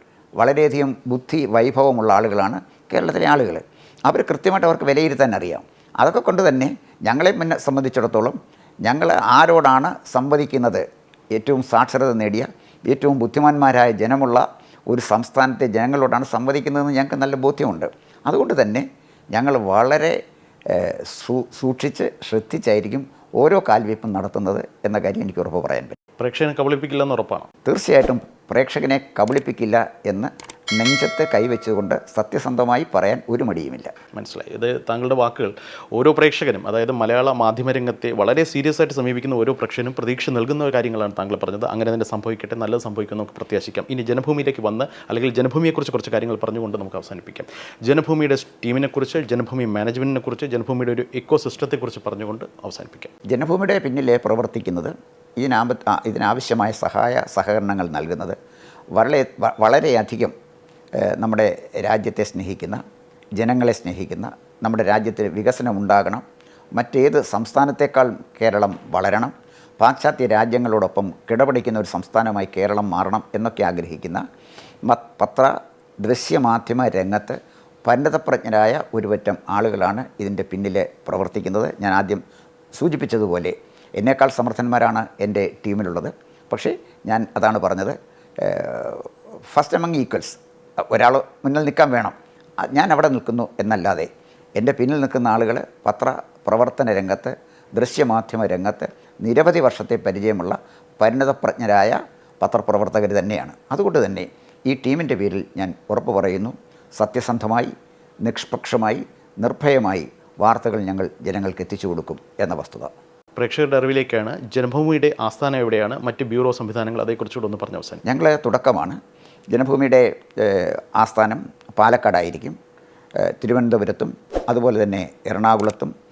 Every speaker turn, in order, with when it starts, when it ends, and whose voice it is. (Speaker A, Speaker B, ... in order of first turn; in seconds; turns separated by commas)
Speaker A: 0.4-20.2, Speaker A: 20.7-26.0, Speaker B: 26.2-27.5, Speaker A: 27.7-33.9, Speaker B: 34.1-53.1, Speaker A: 53.3-58.4, Speaker A: 58.9-60.3, Speaker A: 61.0-62.8, Speaker A: 63.4-66.2, Speaker A: 66.8-74.2, Speaker A: 74.9-82.2, Speaker A: 82.8-90.4, Speaker A: 90.9-107.7, Speaker A: 108.2-112.9, Speaker B: 113.4-118.0, Speaker A: 118.0-119.0, Speaker A: 119.5-122.6, Speaker A: 123.2-125.9